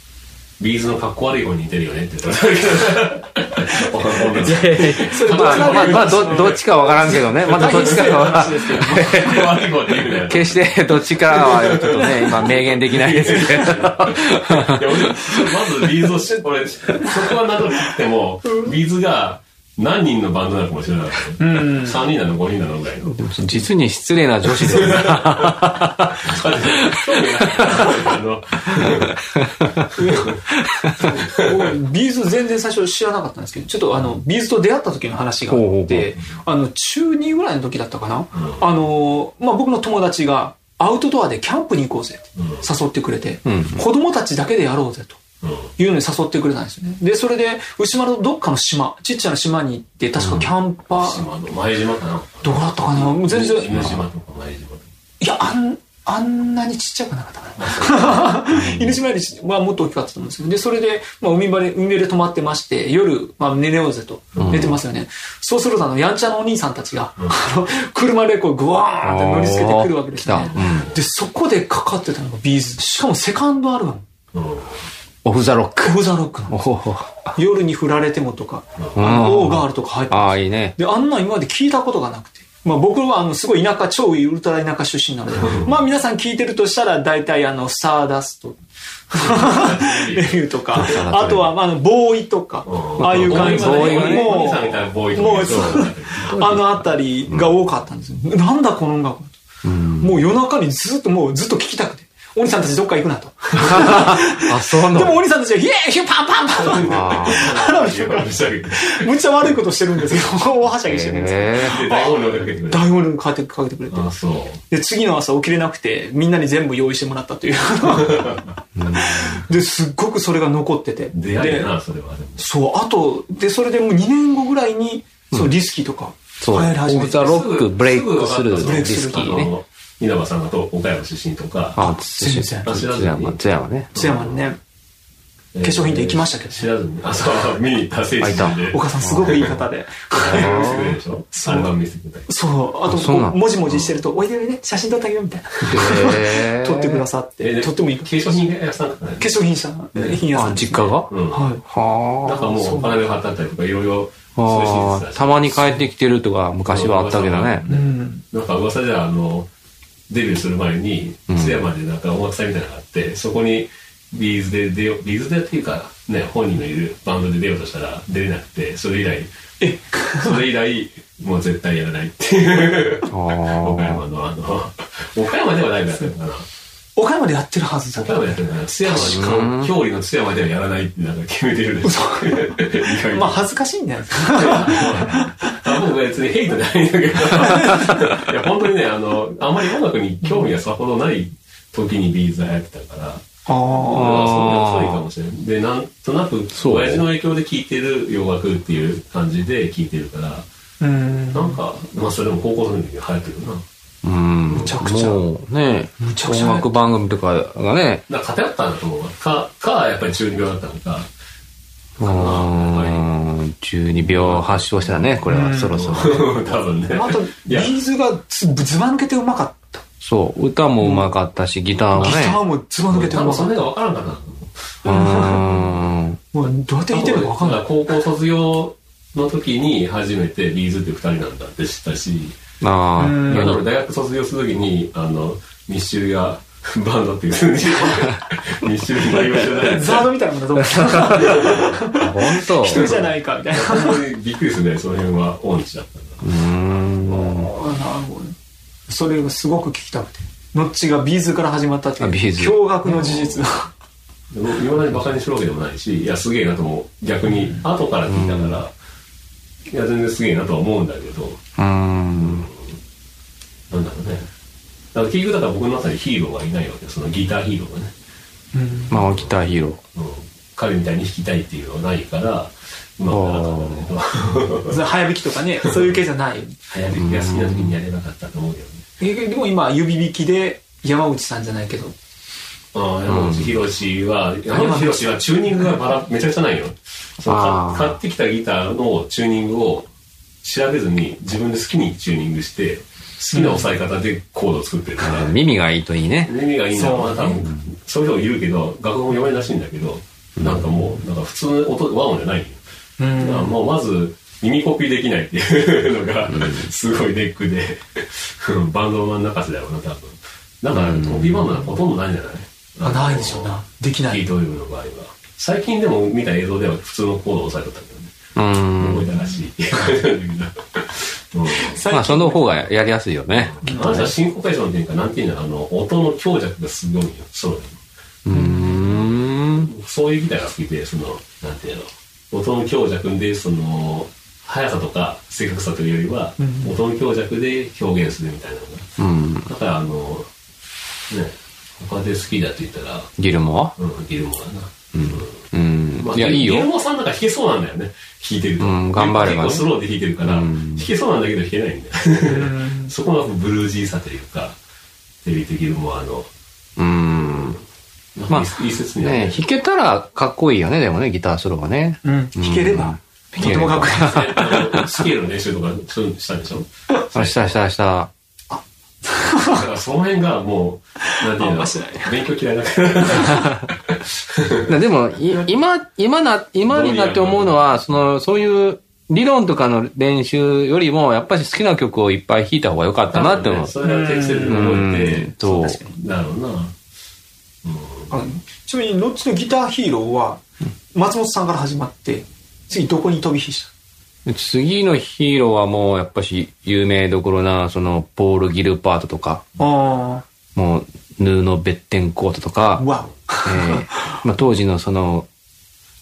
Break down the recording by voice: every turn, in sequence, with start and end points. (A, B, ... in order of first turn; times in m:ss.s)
0:00.6-0:23.3 A
0:04.4-0:15.5 B
0:04.4-0:09.5 C
0:13.2-0:13.8 C
0:21.4-0:22.0 C
0:23.2-0:27.9 B
0:24.6-0:29.2 A
0:28.7-0:29.9 B
0:29.8-0:30.4 A
0:30.0-0:30.3 C
0:30.5-0:31.1 B
0:31.0-0:31.7 A
0:31.0-0:45.2 C
0:35.5-0:36.1 B
0:38.3-0:38.6 A
0:42.4-0:42.6 A
0:43.4-0:43.8 B
0:45.4-0:45.7 A
0:45.8-0:51.3 C
0:50.2-0:50.5 B
0:51.0-0:54.9 A
0:52.4-0:53.9 C
0:55.2-1:14.0 C
0:57.6-0:58.4 A
0:58.5-0:59.0 B
1:04.4-1:04.7 A
1:04.4-1:04.8 B
1:09.0-1:10.9 B
1:10.6-1:10.9 A
1:14.3-1:14.8 A
1:15.2-1:16.0 B
1:15.8-1:16.6 C
1:16.5-1:17.3 B
1:17.3-1:28.6 C
1:19.0-1:20.8 B
1:25.4-1:25.7 A
1:29.1-1:39.4 C
1:29.1-1:30.4 A
1:30.7-1:31.5 B
1:32.6-1:36.4 A
1:33.0-1:34.4 B
1:35.4-1:37.5 B
1:39.6-1:40.2 B
1:40.0-1:54.1 C
1:43.6-1:45.2 B
1:46.5-1:49.1 A
1:46.8-1:47.5 B
1:50.8-1:51.8 B
1:51.6-1:52.9 A
1:53.9-1:54.6 A
1:54.7-1:58.4 C
1:57.8-1:58.5 A
1:58.8-1:59.4 B
1:59.0-2:01.7 C
2:01.1-2:02.4 A
2:02.4-2:07.6 C
2:06.4-2:09.5 B
2:07.2-2:11.8 A
2:08.6-2:09.5 C
2:11.8-2:13.9 B
2:11.8-2:12.8 C
2:12.6-2:13.4 A
2:13.9-2:14.4 A
2:13.9-2:14.6 C
2:15.5-2:19.6 A
2:15.6-2:16.7 C
2:18.2-2:19.5 B
2:18.5-2:21.7 C
2:20.2-2:22.3 A
2:20.2-2:21.0 B
2:22.3-2:28.2 C
2:22.9-2:23.4 B
2:25.7-2:27.0 B
2:27.4-2:29.3 A
2:29.2-2:31.6 C
2:30.3-2:31.1 B
2:31.1-2:31.5 A
2:31.6-2:32.4 B
2:32.2-2:35.8 A
2:32.5-2:33.0 C
2:34.4-2:37.6 B
2:36.7-2:39.5 A
2:37.7-2:38.2 C
2:40.1-2:49.3 A
2:41.3-2:41.6 B
2:49.6-2:50.5 C
2:50.2-2:56.4 A
2:53.1-2:54.0 B
2:57.0-2:58.4 C
2:58.0-3:03.4 A
2:58.9-2:59.7 B
3:01.8-3:05.6 C
3:04.2-3:20.4 A
3:07.4-3:07.7 C
3:13.5-3:14.2 C
3:13.9-3:15.0 B
3:16.5-3:17.0 B
3:20.8-3:21.6 C
3:21.3-3:23.6 A
3:24.0-3:28.0 B
3:24.5-3:25.2 C
3:26.0-3:26.7 C
3:28.1-3:31.1 A
3:32.0-3:36.4 B
3:32.0-3:33.1 A
3:33.9-3:37.7 A
3:35.2-3:36.0 C
3:36.9-3:39.8 C
3:40.0-3:42.4 B
3:40.8-3:41.1 C
3:41.9-3:43.6 C
3:42.9-3:44.8 A
3:44.8-3:45.5 C
3:44.8-3:46.2 B
3:46.3-3:47.8 C
3:46.9-3:52.4 A
3:52.6-3:53.6 B
3:53.0-3:53.6 C
3:53.2-4:00.1 A
3:59.4-4:04.0 C
4:00.7-4:01.4 B
4:01.0-4:01.8 A
4:01.9-4:02.9 B
4:02.6-4:06.3 A
4:06.2-4:07.5 B
4:07.2-4:08.4 C
4:08.9-4:13.7 C
4:12.0-4:13.0 B
4:12.8-4:13.5 A
4:14.3-4:18.7 A
4:18.1-4:18.6 B
4:19.7-4:21.4 A
4:21.6-4:22.5 B
4:22.1-4:22.8 A
4:23.7-4:24.3 A
4:24.9-4:27.9 A
4:28.5-4:29.0 C
4:28.9-4:29.8 B
4:29.9-4:34.8 A
4:33.1-4:33.9 B
4:34.7-4:36.6 C
4:35.7-4:36.0 A
4:36.7-4:38.8 A
4:36.9-4:37.7 B
4:39.0-4:41.9 C
4:42.7-4:49.9 A
4:43.1-4:43.5 B
4:44.5-4:45.7 C
4:47.2-4:48.0 B
4:50.4-4:55.3 A
4:53.3-4:53.7 C
4:55.0-4:56.3 B
4:56.2-5:02.6 A
4:56.7-4:57.4 C
5:00.4-5:00.6 B
5:03.0-5:03.6 C
5:03.2-5:13.5 A
5:06.3-5:06.7 B
5:10.7-5:11.5 B
5:12.8-5:14.3 C
5:14.1-5:18.2 A
5:18.4-5:19.1 B
5:18.7-5:21.8 A
5:21.5-5:22.6 C
5:21.9-5:24.1 B
5:23.4-5:27.8 A
5:23.6-5:24.1 C
5:28.2-5:29.7 B
5:28.3-5:28.8 C
5:28.8-5:38.9 A
5:36.4-5:36.8 C
5:39.0-5:39.5 B
5:39.5-5:40.3 A
5:41.1-5:43.1 A
5:43.2-5:43.7 B
5:43.8-5:45.4 A
5:44.9-5:46.7 B
5:46.0-5:54.6 A
5:48.6-5:49.7 B
5:50.2-5:50.9 B
5:52.2-5:52.9 C
5:55.2-5:56.3 A
5:56.8-5:57.6 B
5:58.2-5:59.5 A
5:58.3-6:05.0 B
6:02.0-6:04.7 C
6:03.4-6:07.5 A
6:07.1-6:08.1 B
6:08.5-6:09.6 C
6:09.4-6:14.8 A
6:11.2-6:12.2 C
6:14.7-6:23.8 B
6:16.7-6:17.8 A
6:23.1-6:26.7 A
6:23.8-6:24.9 C
6:24.4-6:25.8 B
6:25.4-6:26.0 C
6:27.6-6:28.1 A
6:28.1-6:33.7 C
6:34.2-6:39.4 B
6:39.6-6:40.2 C
6:40.5-6:42.8 B
6:42.8-6:44.1 C
6:43.4-6:45.3 B